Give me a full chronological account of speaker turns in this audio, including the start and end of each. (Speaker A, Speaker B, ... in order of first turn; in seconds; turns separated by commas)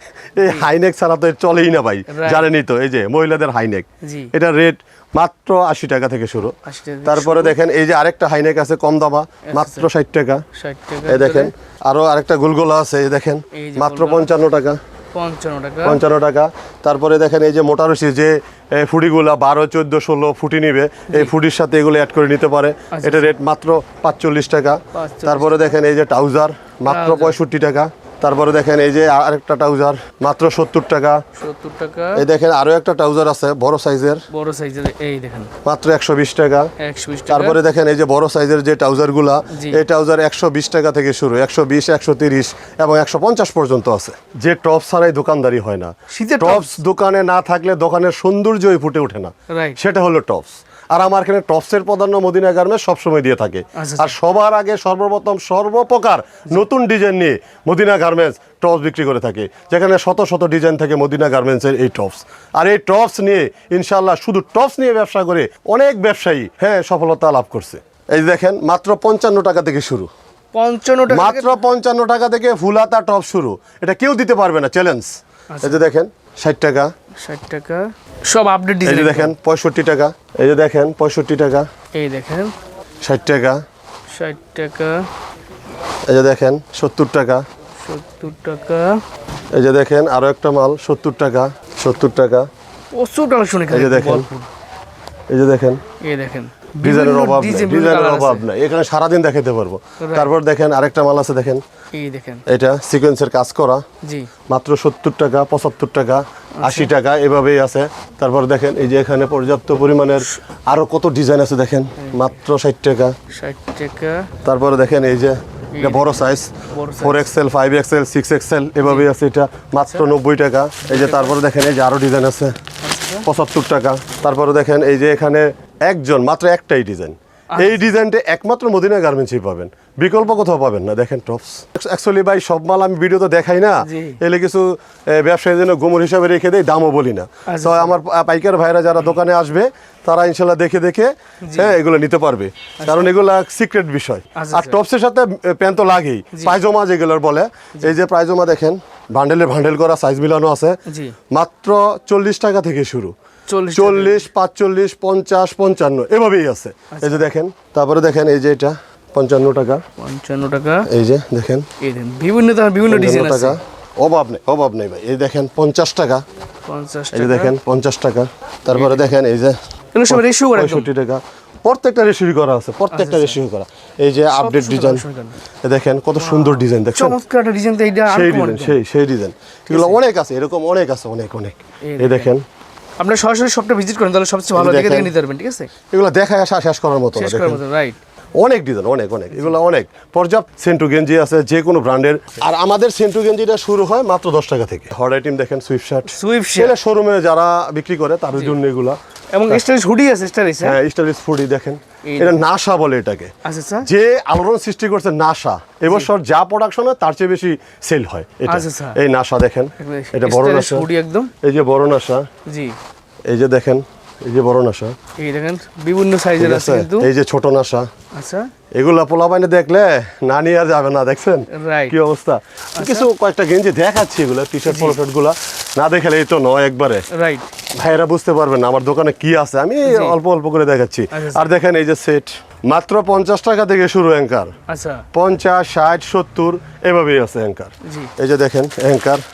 Speaker A: 0.4-10.4, Speaker B: 2.1-2.5, Speaker B: 4.0-4.3, Speaker B: 6.7-7.6, Speaker B: 9.5-9.9, Speaker B: 10.6-11.5, Speaker A: 11.1-14.8, Speaker B: 13.6-14.3, Speaker B: 15.1-16.0, Speaker A: 15.8-31.2, Speaker B: 22.9-23.3, Speaker B: 24.9-25.8, Speaker B: 26.9-27.4, Speaker B: 31.4-32.2, Speaker A: 32.1-34.2, Speaker B: 34.3-35.5, Speaker A: 35.6-36.7, Speaker B: 36.8-37.6, Speaker A: 37.3-70.1, Speaker B: 39.5-39.8, Speaker B: 46.1-46.6, Speaker B: 49.5-49.8, Speaker B: 53.8-54.1, Speaker B: 70.5-71.6, Speaker A: 71.1-76.9, Speaker B: 75.5-75.8, Speaker B: 77.2-79.3, Speaker A: 78.8-81.7, Speaker B: 81.9-82.5, Speaker A: 83.0-83.6, Speaker B: 84.1-85.1, Speaker A: 86.1-87.4, Speaker B: 87.8-89.0, Speaker A: 89.5-92.5, Speaker B: 92.9-94.5, Speaker A: 93.7-94.3, Speaker A: 95.3-95.8, Speaker B: 96.0-98.5, Speaker A: 96.8-101.6, Speaker B: 100.0-100.3, Speaker B: 101.9-102.4, Speaker A: 102.5-103.8, Speaker B: 104.0-104.3, Speaker A: 104.5-113.2, Speaker B: 106.6-106.9, Speaker B: 113.3-114.3, Speaker A: 114.4-122.6, Speaker B: 115.8-116.1, Speaker B: 116.7-117.3, Speaker B: 118.8-119.1, Speaker B: 120.9-121.4, Speaker B: 122.8-123.2, Speaker A: 123.2-150.8, Speaker B: 127.5-127.8, Speaker B: 133.9-134.2, Speaker B: 137.5-137.9, Speaker B: 141.4-141.7, Speaker B: 142.8-143.1, Speaker B: 144.4-144.8, Speaker B: 150.9-151.2, Speaker A: 151.3-153.1, Speaker B: 153.5-154.3, Speaker A: 153.7-159.8, Speaker B: 156.9-157.2, Speaker B: 160.0-160.9, Speaker A: 160.9-161.7, Speaker B: 161.8-163.6, Speaker A: 162.9-166.2, Speaker B: 166.7-167.5, Speaker A: 167.1-169.6, Speaker B: 168.7-169.0, Speaker B: 169.9-170.9, Speaker A: 170.1-175.1, Speaker B: 172.9-173.4, Speaker B: 174.3-175.3, Speaker A: 175.6-177.2, Speaker B: 176.2-178.8, Speaker A: 178.1-182.4, Speaker B: 179.7-180.0, Speaker B: 181.8-182.3, Speaker B: 183.0-185.7, Speaker A: 184.5-185.1, Speaker A: 185.9-187.6, Speaker B: 187.2-188.0, Speaker A: 188.4-199.6, Speaker B: 196.1-196.7, Speaker B: 199.3-200.8, Speaker A: 200.6-203.3, Speaker B: 202.1-202.4, Speaker B: 203.4-203.9, Speaker A: 203.8-210.9, Speaker B: 208.5-209.0, Speaker B: 209.8-211.3, Speaker A: 211.4-212.3, Speaker B: 212.5-212.8, Speaker A: 213.3-215.0, Speaker B: 215.2-217.1, Speaker A: 216.4-217.9, Speaker B: 218.2-218.5, Speaker A: 218.8-227.1, Speaker B: 221.5-221.9, Speaker B: 222.8-223.1, Speaker B: 224.7-225.0, Speaker B: 227.1-227.5, Speaker A: 227.8-234.5, Speaker B: 229.8-230.2, Speaker B: 231.1-231.4, Speaker B: 234.7-235.0, Speaker A: 235.1-239.2, Speaker B: 237.9-238.1